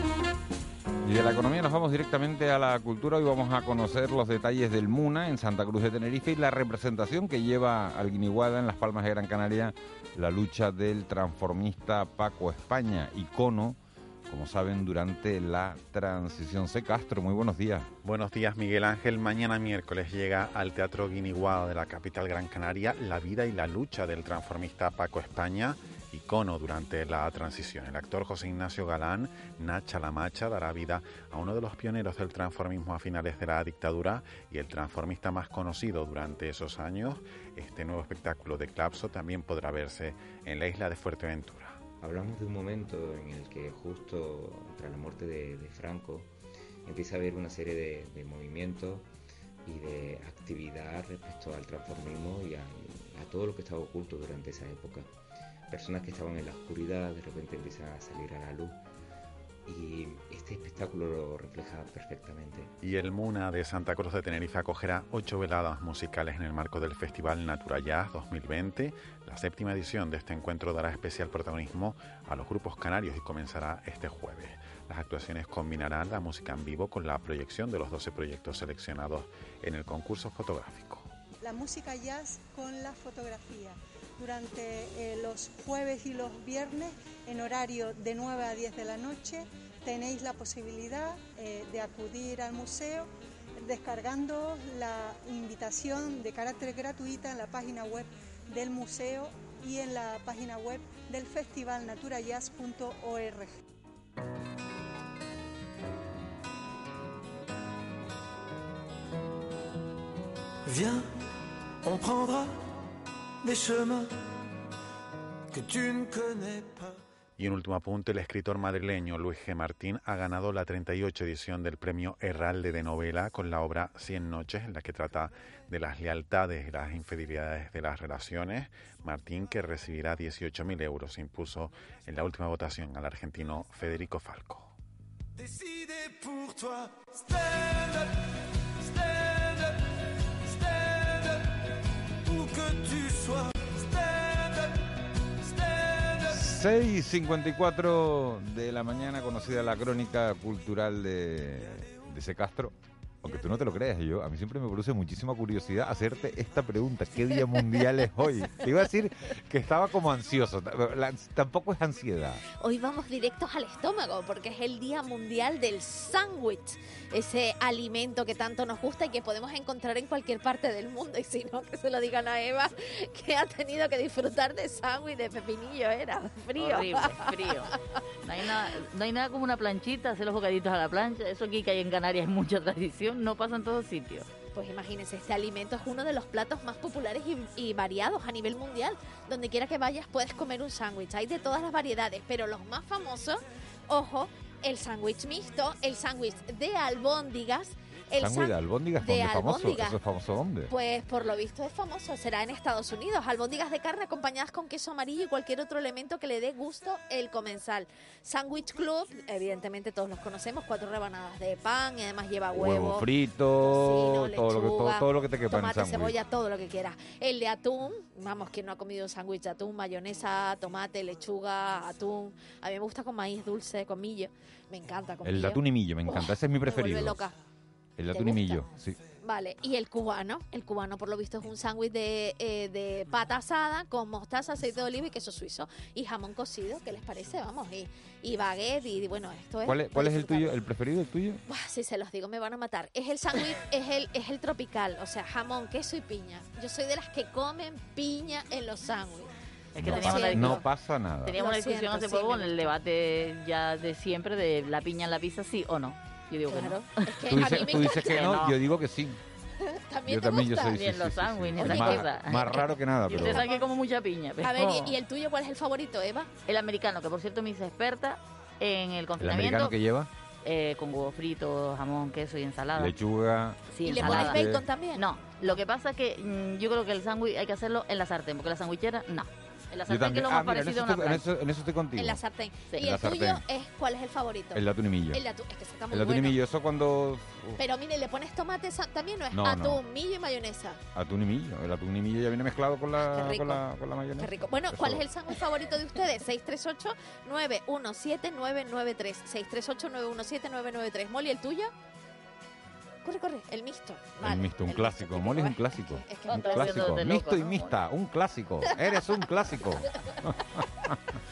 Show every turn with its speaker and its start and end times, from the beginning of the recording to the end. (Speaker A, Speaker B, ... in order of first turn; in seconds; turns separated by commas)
Speaker A: 1.0-17.9, Speaker B: 18.0-41.9, Speaker C: 42.0-46.3, Speaker C: 46.9-49.1, Speaker C: 49.6-55.1, Speaker C: 55.7-58.8, Speaker C: 59.7-62.7, Speaker B: 62.8-81.1, Speaker D: 81.4-103.5, Speaker E: 110.6-111.1, Speaker E: 111.8-112.7, Speaker E: 113.4-114.2, Speaker E: 115.5-117.0, Speaker B: 117.4-134.7, Speaker E: 135.3-141.6, Speaker E: 142.2-146.4, Speaker A: 146.2-162.4, Speaker F: 157.6-157.9, Speaker F: 162.6-177.6, Speaker G: 176.6-177.7, Speaker G: 178.2-184.3, Speaker F: 184.5-200.0, Speaker A: 198.2-200.7, Speaker F: 200.7-213.1, Speaker A: 212.5-216.2, Speaker F: 213.6-227.4, Speaker A: 225.2-227.2, Speaker A: 228.0-229.0, Speaker F: 228.1-228.7, Speaker F: 229.2-240.5, Speaker A: 239.6-241.4, Speaker F: 241.5-250.7, Speaker G: 249.7-250.6, Speaker A: 249.8-251.4, Speaker G: 251.2-258.6, Speaker F: 251.3-252.7, Speaker F: 256.5-258.3, Speaker A: 257.3-259.2, Speaker F: 259.6-260.8, Speaker A: 260.1-263.4, Speaker G: 260.6-264.9, Speaker F: 261.6-263.7, Speaker F: 264.4-266.3, Speaker G: 266.5-269.8, Speaker A: 269.2-270.1, Speaker G: 270.4-272.9, Speaker A: 272.7-274.6, Speaker G: 273.7-274.4, Speaker F: 273.8-275.1, Speaker G: 274.9-281.2, Speaker A: 279.9-282.2, Speaker F: 281.9-286.4, Speaker A: 282.8-283.4, Speaker A: 284.5-285.2, Speaker A: 285.9-287.6, Speaker F: 287.6-290.8, Speaker A: 289.3-289.8, Speaker A: 290.9-295.1, Speaker F: 293.0-293.6, Speaker F: 294.2-301.7, Speaker F: 303.0-307.0, Speaker A: 304.2-311.0, Speaker G: 306.3-307.8